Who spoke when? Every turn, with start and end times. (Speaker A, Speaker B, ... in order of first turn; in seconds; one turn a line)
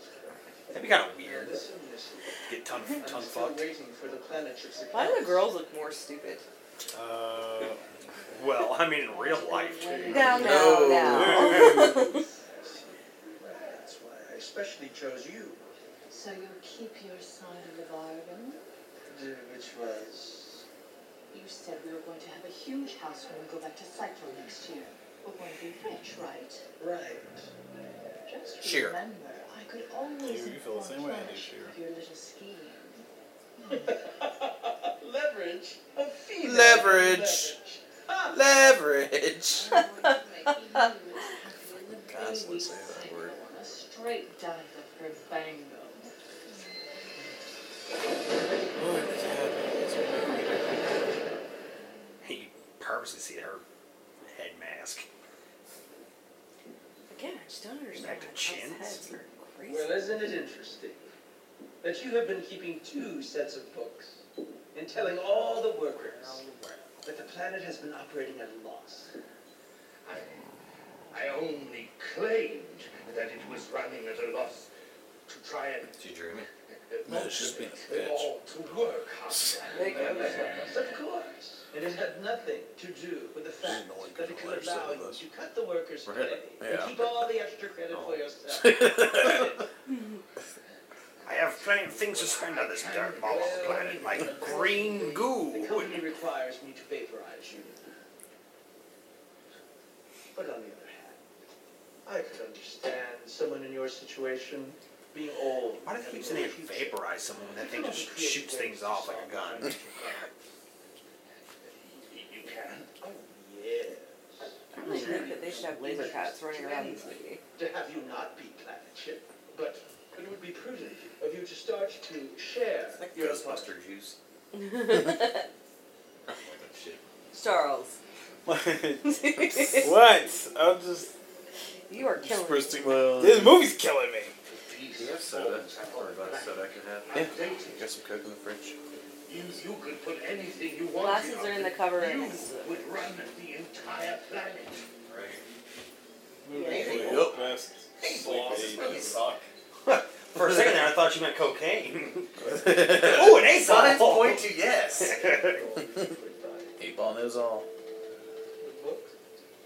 Speaker A: 0.7-1.6
Speaker B: 1.1-2.4
Speaker A: 2.5-3.6
Speaker B: 3.0-5.5
Speaker C: 4.9-6.4
Speaker D: 6.9-7.8
Speaker A: 8.3-10.2
Speaker E: 9.1-10.4
Speaker C: 10.1-12.2
Speaker D: 10.1-12.2
Speaker F: 10.2-11.7
Speaker B: 12.6-15.6
Speaker E: 16.1-18.6
Speaker B: 19.1-20.6
Speaker E: 21.3-26.6
Speaker B: 26.8-27.4
Speaker E: 28.3-33.0
Speaker F: 28.6-29.0
Speaker D: 30.2-31.8
Speaker B: 33.7-38.4
Speaker F: 36.4-37.6
Speaker F: 38.3-39.8
Speaker E: 39.5-46.7
Speaker F: 42.1-43.4
Speaker D: 48.8-51.0
Speaker E: 50.2-50.6
Speaker A: 52.2-53.6
Speaker A: 54.2-55.1
Speaker C: 57.1-60.2
Speaker A: 58.0-59.0
Speaker B: 59.7-61.1
Speaker B: 61.8-64.2
Speaker B: 64.7-66.4
Speaker A: 65.8-66.9
Speaker B: 67.0-69.1
Speaker G: 70.0-70.3
Speaker G: 71.1-74.7
Speaker G: 75.3-76.0
Speaker H: 76.0-76.5
Speaker G: 76.9-80.5
Speaker F: 77.0-78.3
Speaker H: 78.6-79.0
Speaker F: 79.3-79.6
Speaker C: 79.7-80.7
Speaker B: 79.8-89.5
Speaker F: 83.7-84.0
Speaker H: 83.9-84.8
Speaker F: 84.6-85.2
Speaker H: 86.1-86.4
Speaker F: 86.6-87.0
Speaker H: 87.9-88.3
Speaker F: 88.5-89.6
Speaker A: 91.2-96.0
Speaker G: 92.2-94.2
Speaker B: 92.8-97.8
Speaker B: 100.3-101.2
Speaker B: 102.0-110.3
Speaker A: 105.8-109.7
Speaker G: 112.0-112.9
Speaker B: 113.0-123.7
Speaker C: 114.8-117.4
Speaker H: 123.0-124.2
Speaker C: 124.5-125.5
Speaker H: 126.3-127.0
Speaker C: 127.3-128.0
Speaker D: 128.4-131.1
Speaker C: 129.1-129.9
Speaker C: 131.9-132.9
Speaker F: 132.1-133.7
Speaker D: 133.2-134.3
Speaker G: 134.5-136.6
Speaker H: 134.9-138.8
Speaker G: 137.1-137.9
Speaker F: 137.2-137.9
Speaker G: 139.3-144.8
Speaker C: 140.9-142.8
Speaker H: 145.1-145.4
Speaker D: 146.4-149.1
Speaker C: 146.6-146.8
Speaker H: 146.6-147.3
Speaker F: 146.9-147.4
Speaker H: 148.0-149.4
Speaker G: 148.0-149.2
Speaker A: 149.8-155.6
Speaker H: 152.5-155.2
Speaker F: 152.6-153.2
Speaker B: 155.0-156.7
Speaker F: 156.8-157.7
Speaker B: 158.6-159.1